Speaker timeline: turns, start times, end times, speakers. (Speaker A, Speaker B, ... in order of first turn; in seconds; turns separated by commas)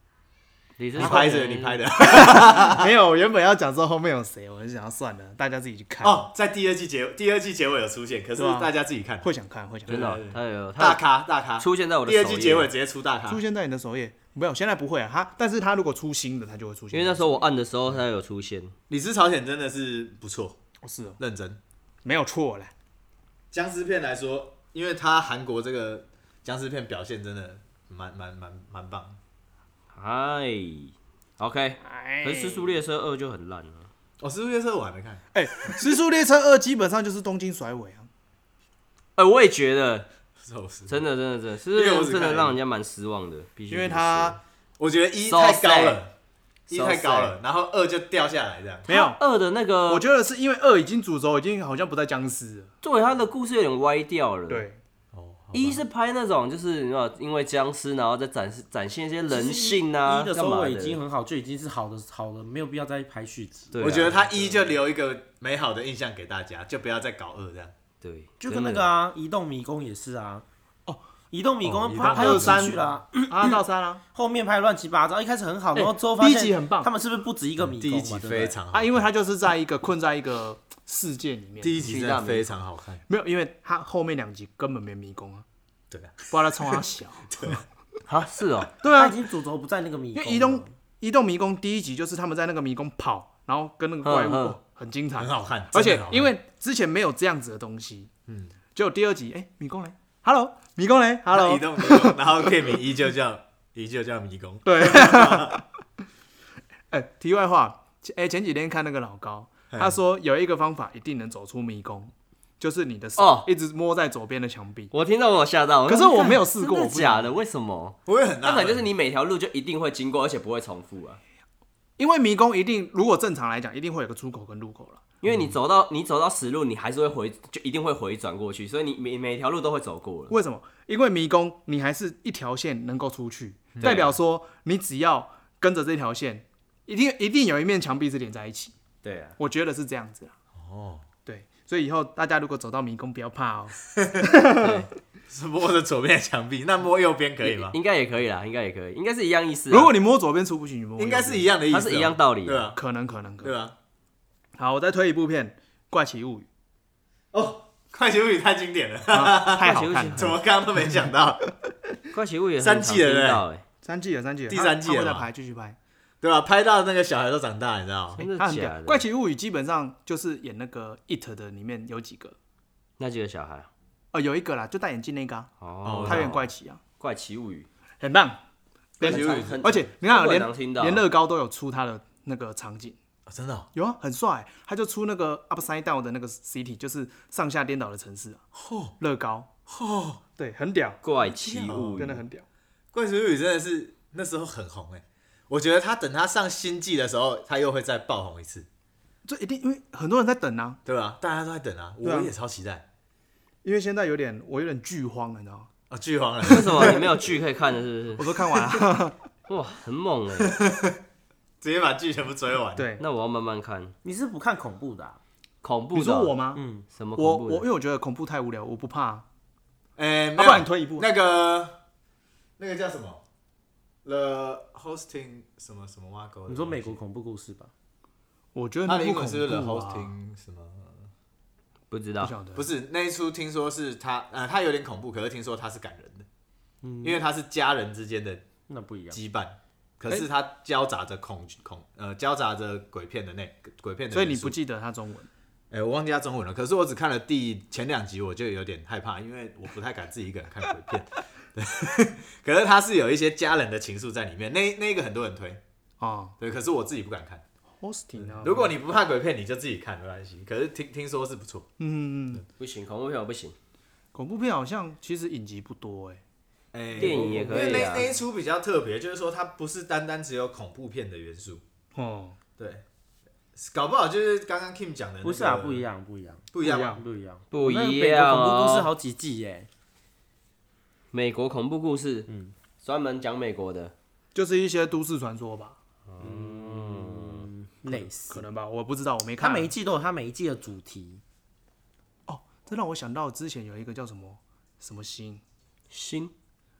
Speaker A: 0.8-1.8, Speaker B: 1.0-2.9, Speaker C: 1.0-6.3, Speaker B: 6.0-9.3, Speaker C: 8.4-8.7, Speaker C: 9.2-10.2, Speaker A: 9.9-11.0, Speaker B: 9.9-13.4, Speaker A: 11.6-12.7, Speaker C: 13.3-17.5, Speaker A: 16.9-18.7, Speaker B: 18.9-20.6, Speaker C: 20.8-21.2, Speaker B: 21.2-21.6, Speaker C: 22.0-22.7, Speaker B: 23.5-29.2, Speaker A: 29.9-33.9, Speaker C: 31.8-32.8, Speaker B: 34.2-35.2, Speaker C: 35.3-38.1, Speaker A: 39.2-40.1, Speaker B: 40.4-41.0, Speaker A: 40.9-44.4, Speaker B: 41.7-42.6, Speaker C: 43.7-44.4, Speaker B: 44.8-46.1, Speaker A: 45.3-46.0, Speaker A: 46.7-47.4, Speaker B: 46.7-48.9, Speaker C: 48.9-49.2, Speaker A: 48.9-50.0, Speaker C: 49.9-52.7, Speaker A: 52.8-54.7, Speaker C: 54.5-54.8, Speaker B: 55.1-55.8, Speaker A: 55.5-61.0, Speaker D: 59.3-64.7, Speaker A: 63.7-64.2, Speaker B: 63.8-67.7, Speaker A: 68.0-68.9, Speaker D: 68.4-70.5, Speaker D: 71.3-73.6, Speaker B: 71.6-72.8, Speaker C: 72.0-74.0, Speaker D: 74.1-78.6, Speaker C: 75.8-76.9, Speaker B: 77.6-79.1, Speaker C: 78.7-81.8, Speaker B: 81.6-83.0, Speaker A: 81.8-82.5, Speaker C: 83.1-85.5, Speaker B: 85.9-86.8, Speaker C: 86.3-87.6, Speaker B: 87.3-87.6, Speaker A: 88.1-88.7, Speaker C: 88.8-89.2, Speaker D: 88.8-90.7, Speaker C: 90.2-98.1, Speaker A: 94.0-94.6, Speaker B: 95.2-96.3, Speaker B: 98.3-98.5, Speaker C: 98.7-102.5, Speaker B: 101.3-105.6, Speaker C: 104.7-105.6, Speaker C: 106.9-114.9, Speaker B: 109.7-110.0, Speaker A: 113.2-113.5, Speaker A: 114.9-121.2, Speaker C: 115.9-117.3, Speaker B: 118.1-118.9, Speaker C: 122.0-125.1, Speaker A: 125.2-130.3, Speaker B: 125.2-125.5, Speaker C: 130.3-138.7, Speaker B: 133.8-134.1, Speaker A: 133.8-134.1, Speaker A: 139.0-139.4, Speaker C: 139.4-140.3, Speaker B: 140.6-141.1, Speaker C: 141.3-144.9, Speaker A: 144.6-144.9, Speaker B: 145.3-147.8, Speaker A: 147.4-149.9, Speaker C: 149.7-151.5, Speaker B: 151.0-152.8, Speaker A: 151.7-152.7, Speaker C: 152.7-153.6, Speaker B: 153.4-153.8, Speaker C: 154.6-156.5, Speaker B: 157.3-161.4, Speaker C: 159.1-160.4, Speaker A: 159.6-160.4, Speaker A: 162.1-163.6, Speaker B: 162.6-163.4, Speaker C: 163.8-165.8, Speaker B: 164.5-165.3, Speaker B: 166.2-168.3, Speaker A: 168.2-169.1, Speaker C: 168.3-172.4, Speaker A: 173.0-173.7, Speaker C: 174.1-176.8, Speaker A: 175.6-176.5, Speaker B: 175.8-176.3, Speaker A: 177.0-177.7, Speaker C: 178.0-178.4, Speaker C: 179.0-183.0, Speaker B: 179.0-179.7, Speaker A: 179.0-181.1, Speaker B: 183.3-183.7, Speaker C: 183.8-188.4, Speaker B: 188.5-188.9, Speaker C: 189.0-189.5, Speaker B: 189.7-190.2, Speaker C: 190.4-192.4, Speaker A: 191.0-192.2, Speaker B: 191.5-192.1, Speaker B: 192.9-198.7, Speaker C: 199.2-200.8, Speaker B: 200.9-202.8, Speaker C: 202.0-202.3, Speaker C: 203.6-205.7, Speaker B: 205.9-207.1, Speaker A: 206.4-208.8, Speaker C: 208.2-209.2, Speaker A: 209.5-210.6, Speaker B: 210.4-211.0, Speaker B: 211.6-212.9, Speaker C: 212.8-213.0, Speaker A: 213.0-213.9, Speaker D: 214.0-215.2, Speaker A: 215.6-216.3, Speaker C: 215.9-216.6, Speaker D: 216.6-216.8, Speaker A: 216.9-217.7, Speaker C: 217.2-219.2, Speaker B: 220.0-221.8, Speaker C: 220.4-221.1, Speaker B: 222.6-223.2, Speaker B: 224.1-227.0, Speaker D: 226.5-227.7, Speaker C: 228.5-230.1, Speaker B: 228.9-231.1, Speaker A: 231.9-232.3, Speaker C: 232.2-232.7, Speaker B: 232.6-236.3, Speaker D: 236.8-237.2, Speaker B: 237.0-238.4, Speaker D: 238.7-239.2, Speaker B: 239.1-244.6, Speaker C: 244.1-245.3, Speaker B: 245.7-255.6, Speaker C: 256.0-256.4, Speaker B: 256.4-257.4, Speaker C: 257.8-258.7, Speaker B: 258.2-261.7, Speaker C: 261.8-262.4, Speaker A: 262.6-263.5, Speaker C: 264.1-266.2, Speaker B: 266.7-271.6, Speaker A: 267.0-268.1, Speaker D: 267.0-267.9, Speaker C: 271.9-272.4, Speaker B: 272.6-272.8, Speaker B: 273.5-275.9, Speaker D: 275.2-279.7, Speaker B: 276.5-277.0, Speaker C: 276.6-277.0, Speaker A: 277.5-278.9, Speaker A: 281.1-282.3, Speaker D: 282.3-282.5, Speaker A: 282.8-283.9, Speaker C: 284.4-285.8, Speaker A: 286.1-287.5, Speaker D: 286.2-288.4, Speaker C: 287.9-289.7, Speaker D: 289.4-291.2, Speaker C: 292.3-295.4, Speaker A: 295.9-296.3